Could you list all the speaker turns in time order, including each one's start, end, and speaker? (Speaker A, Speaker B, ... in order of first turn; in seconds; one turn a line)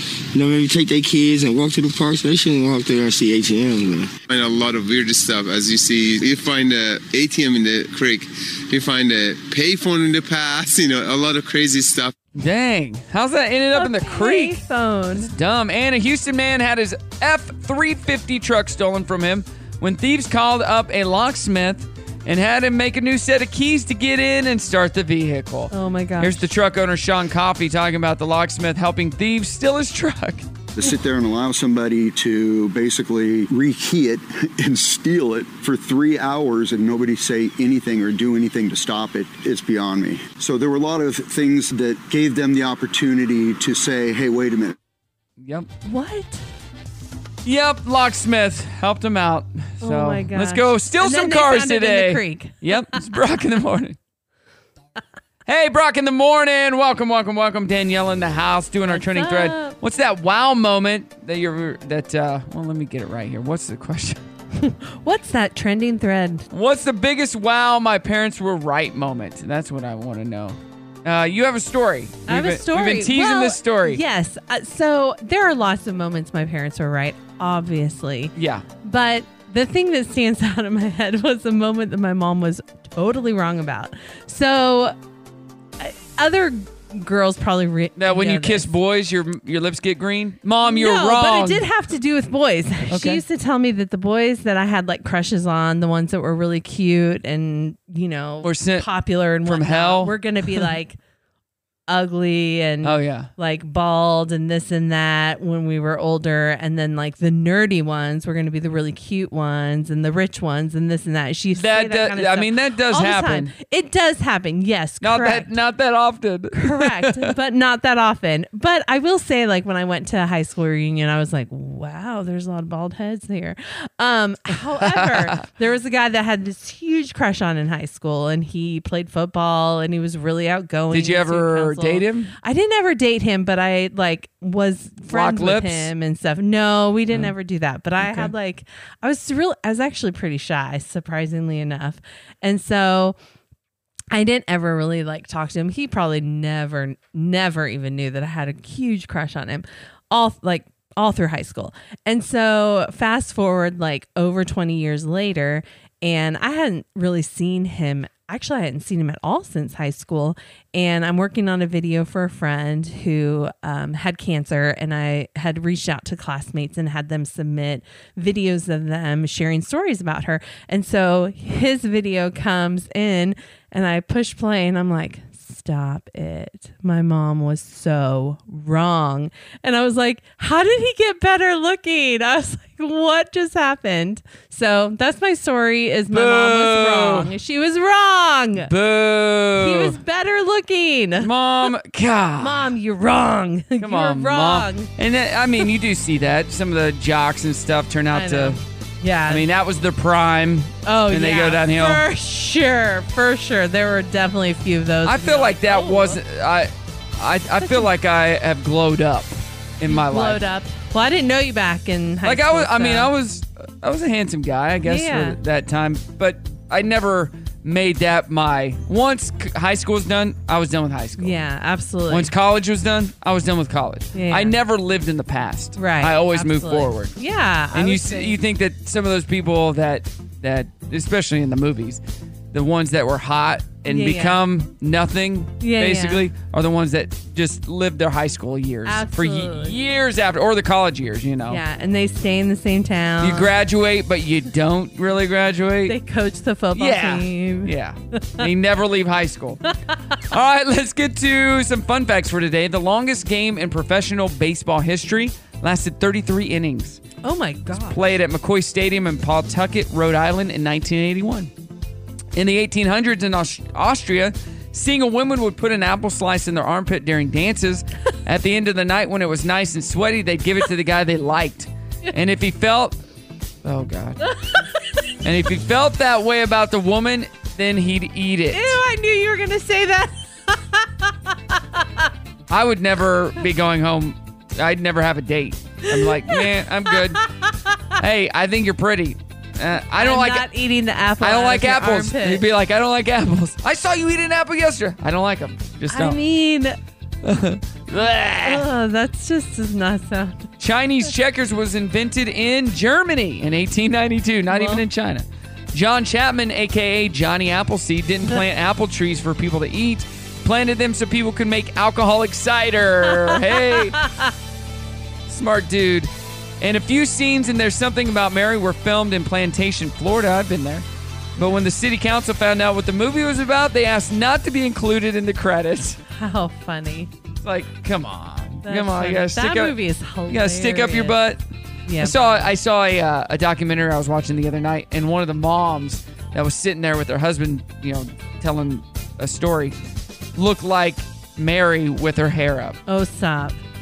Speaker A: 0.3-4.1
Speaker B: 4.3-12.1
Speaker C: 12.4-14.6
Speaker D: 13.7-15.3
Speaker C: 15.2-30.4
Speaker D: 25.7-26.4
Speaker E: 30.7-44.8
Speaker C: 45.4-45.7
Speaker D: 45.8-46.4
Speaker C: 47.4-54.0
Speaker D: 49.8-52.8
Speaker C: 55.5-64.2
Speaker D: 58.9-59.7
Speaker D: 64.5-66.5
Speaker C: 66.5-74.0
Speaker D: 72.3-84.9
Speaker C: 78.3-78.6
Speaker D: 85.8-88.7
Speaker C: 88.0-91.7
Speaker D: 90.6-101.0
Speaker C: 92.9-93.2
Speaker C: 98.4-98.9
Speaker C: 99.4-100.7
Speaker D: 101.9-115.5
Speaker C: 102.8-103.3
Speaker C: 111.5-113.5
Speaker C: 115.0-117.3
Speaker D: 116.5-143.2
Speaker C: 124.8-125.4
Speaker C: 130.9-132.3
Speaker C: 135.1-135.9
Speaker C: 138.0-138.3
Speaker D: 144.1-188.7
Speaker C: 186.1-187.3
Speaker C: 188.6-190.0
Speaker D: 189.6-191.3
Speaker C: 191.2-192.7
Speaker D: 192.4-194.9
Speaker C: 193.8-198.6
Speaker D: 198.1-199.4
Speaker C: 199.3-202.0
Speaker D: 200.8-206.2
Speaker C: 205.0-210.4
Speaker D: 209.8-213.1
Speaker C: 212.2-221.4
Speaker D: 214.8-215.4
Speaker D: 221.2-222.3
Speaker C: 222.1-227.2
Speaker D: 224.1-224.5
Speaker D: 225.8-228.4
Speaker C: 227.7-241.6
Speaker D: 233.9-234.4
Speaker D: 235.6-236.2
Speaker D: 238.8-239.8
Speaker D: 241.5-243.5
Speaker C: 243.2-245.9
Speaker D: 245.8-248.5
Speaker C: 246.7-249.6
Speaker C: 250.3-257.0
Speaker D: 257.2-258.0
Speaker C: 257.8-261.5
Speaker C: 262.3-273.0
Speaker C: 273.6-274.2
Speaker C: 275.2-278.8
Speaker D: 278.5-282.1
Speaker C: 282.5-287.2
Speaker D: 285.9-286.5
Speaker D: 287.2-287.5
Speaker C: 288.0-290.4
Speaker D: 289.9-292.4
Speaker C: 291.2-296.2
Speaker D: 295.9-296.8
Speaker C: 297.2-298.6
Speaker D: 298.4-300.5
Speaker C: 300.6-314.0
Speaker D: 304.5-304.8
Speaker D: 314.0-314.3
Speaker C: 315.3-320.9
Speaker C: 321.4-326.0
Speaker D: 326.1-327.1
Speaker C: 327.4-329.8
Speaker D: 328.6-331.2
Speaker C: 330.3-331.4
Speaker D: 331.9-332.2
Speaker C: 332.0-339.8
Speaker C: 340.4-342.8
Speaker D: 342.9-343.6